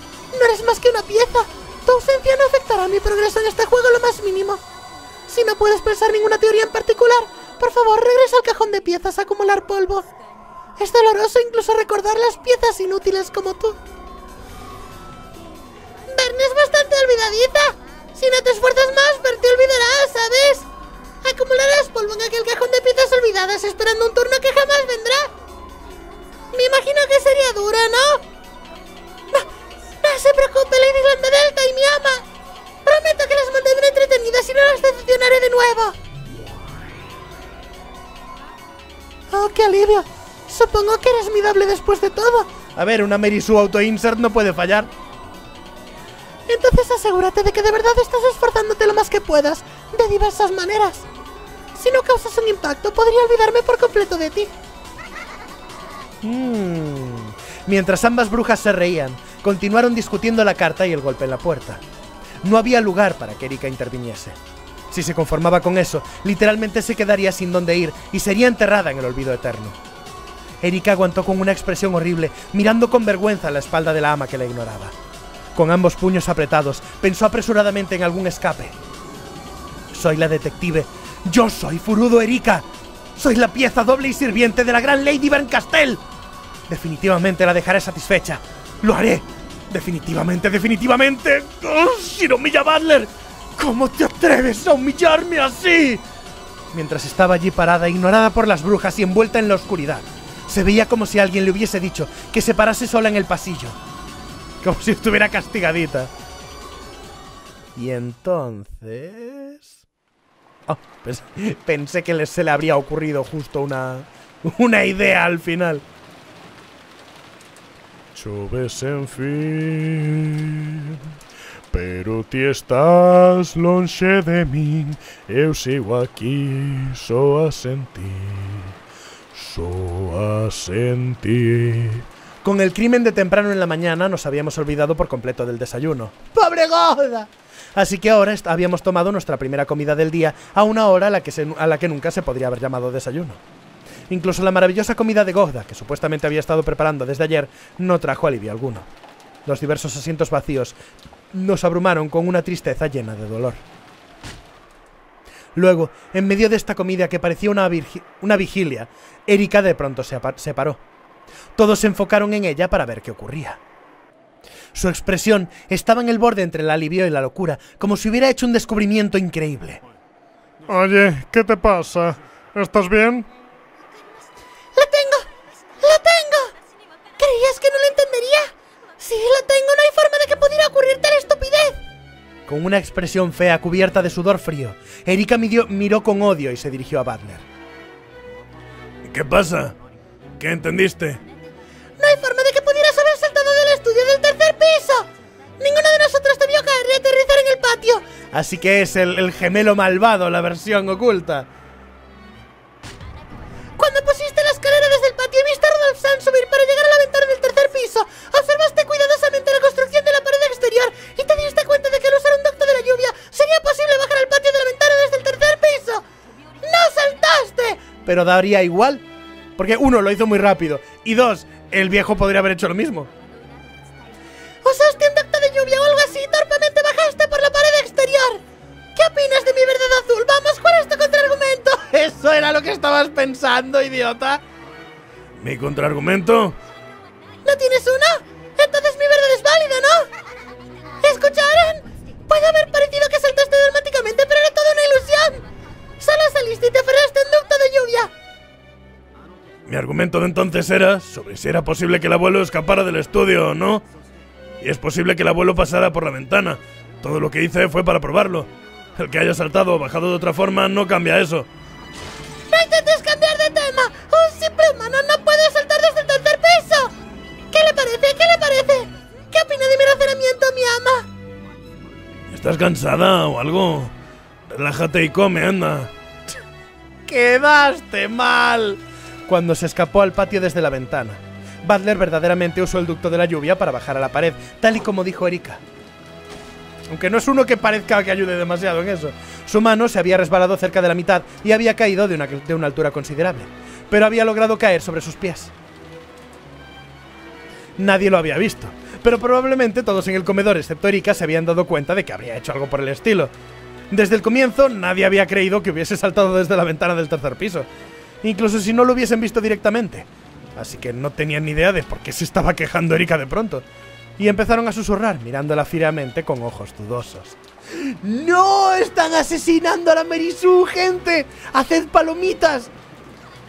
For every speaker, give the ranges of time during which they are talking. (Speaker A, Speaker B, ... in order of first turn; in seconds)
Speaker A: 0.3-4.6, 5.3-10.1, 10.8-13.8, 16.1-20.7, 21.2-25.3, 26.5-28.2, 30.0-32.2, 32.8-36.0, 39.3-42.5, 46.5-51.0, 51.8-54.5, 174.8-175.3, 175.8-176.5, 177.2-181.8, 192.0-195.1, 195.6-198.0, 203.8-216.0, 216.6-217.9, 224.6-228.4, 228.9-231.9, 237.4-240.1, 241.0-245.4, 246.0-248.1, 262.5-266.9, 267.5-271.1
Speaker B: 42.7-44.9, 56.2-61.8, 62.4-64.4, 64.9-69.8, 70.6-74.9, 75.5-78.7, 79.9-86.0, 86.7-96.0, 96.7-103.8, 104.6-106.1, 107.8-109.7, 110.7-115.8, 132.4-143.4, 144.1-148.9, 149.4-150.7, 151.3-153.6, 155.5-160.8, 161.6-163.6, 164.7-169.8, 182.5-187.4, 198.3-201.5, 218.0-219.0, 219.6-223.1, 231.9-234.4, 277.1-285.6, 286.9-295.5, 297.8-303.3, 303.9-307.7, 308.2-313.6, 314.2-322.7
Speaker C: 118.2-119.4, 121.7-128.3, 129.4-131.3, 170.6-173.3
Speaker D: 118.2-121.0, 125.7-126.9, 127.8-128.7, 129.5-132.0, 189.1-189.8, 190.4-191.2, 235.4-236.6, 249.7-253.8, 254.6-261.5, 272.3-273.9, 274.5-275.9